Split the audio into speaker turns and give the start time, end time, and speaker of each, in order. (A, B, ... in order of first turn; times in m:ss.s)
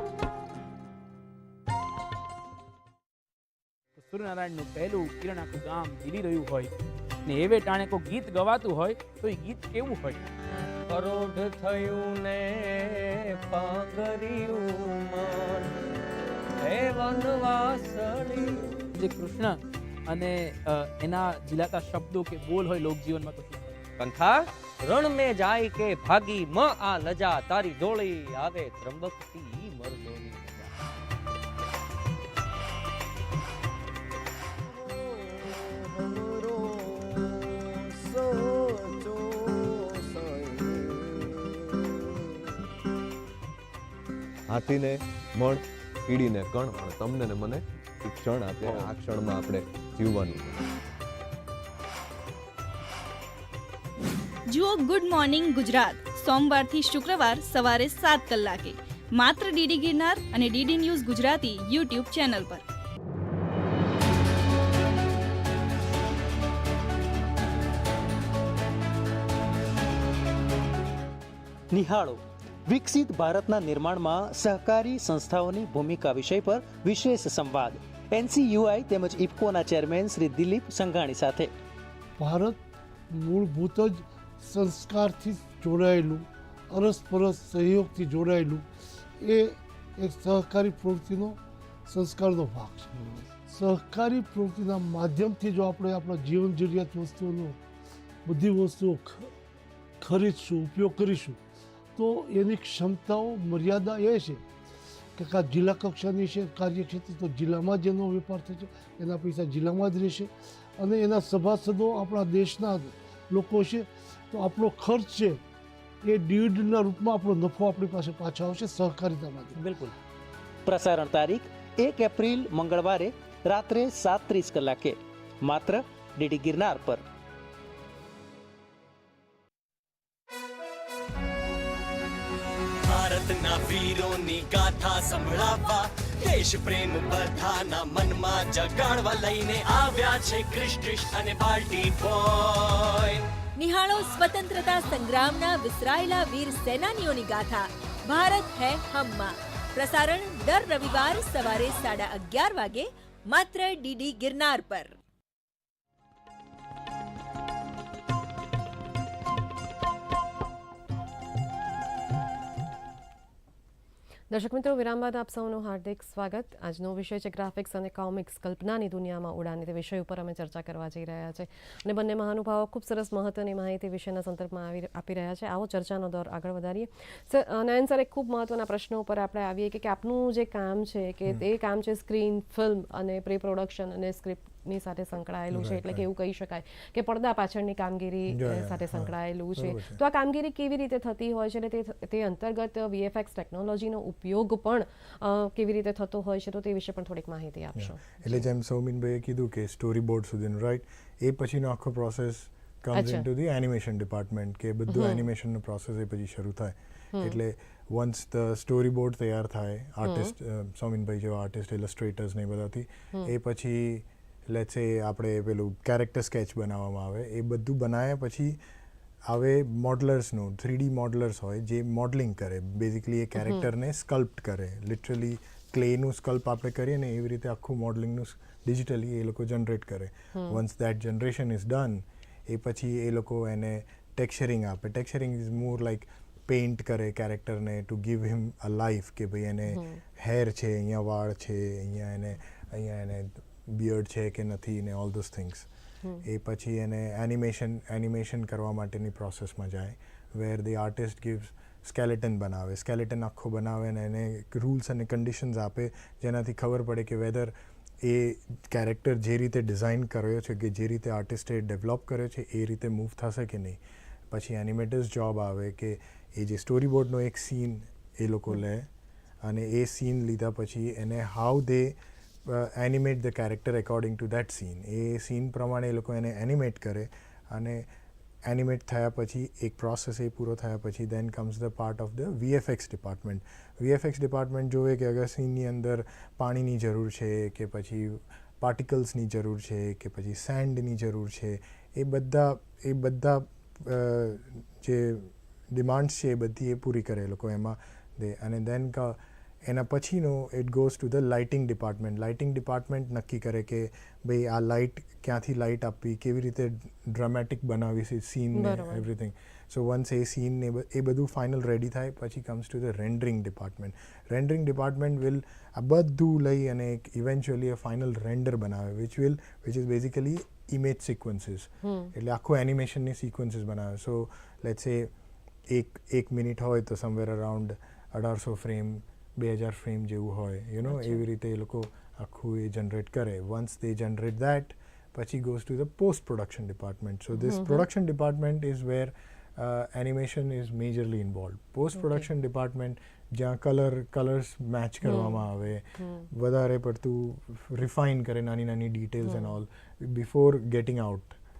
0:04.0-0:06.7 A
0:07.2-0:10.2 A
0:10.9-0:15.7 B
0:16.6-0:18.8 B
0:19.0-0:23.8 A
0:24.0-0:30.7 B
0:34.7-0:41.0 C
0:44.5-0:50.6 C
0:54.5-1:02.6 D
1:11.7-1:21.5 E
1:22.2-1:22.6 F
1:23.1-1:28.6 F
1:29.2-1:37.6 F
1:38.2-1:39.3 F
1:40.0-1:41.4 F
1:42.0-1:44.4 F
1:45.2-1:55.4 F
1:56.0-1:59.6 F
1:59.6-1:59.9 E
2:00.6-2:07.0 E
2:12.8-2:23.2 G
2:23.6-2:34.9 H
2:44.3-3:18.4 I
3:05.5-3:06.0 J
3:08.3-3:10.0 J
3:17.8-3:38.6 J
3:22.9-3:23.2 I
3:24.9-3:25.2 I
3:30.0-3:30.3 I
3:39.2-4:05.7 J
3:43.4-3:43.6 I
3:50.3-3:50.6 I
3:59.7-4:00.0 I
4:06.2-4:23.8 J
4:24.3-4:28.9 J
4:29.4-4:37.9 J
4:38.4-5:25.1 J
5:08.5-5:09.0 I
5:21.8-5:22.1 I
5:25.7-5:51.3 J
5:30.8-5:31.2 I
5:37.3-5:37.8 I
5:42.0-5:42.3 I
5:45.0-5:45.4 I
5:46.0-5:46.3 I
5:49.2-5:49.5 I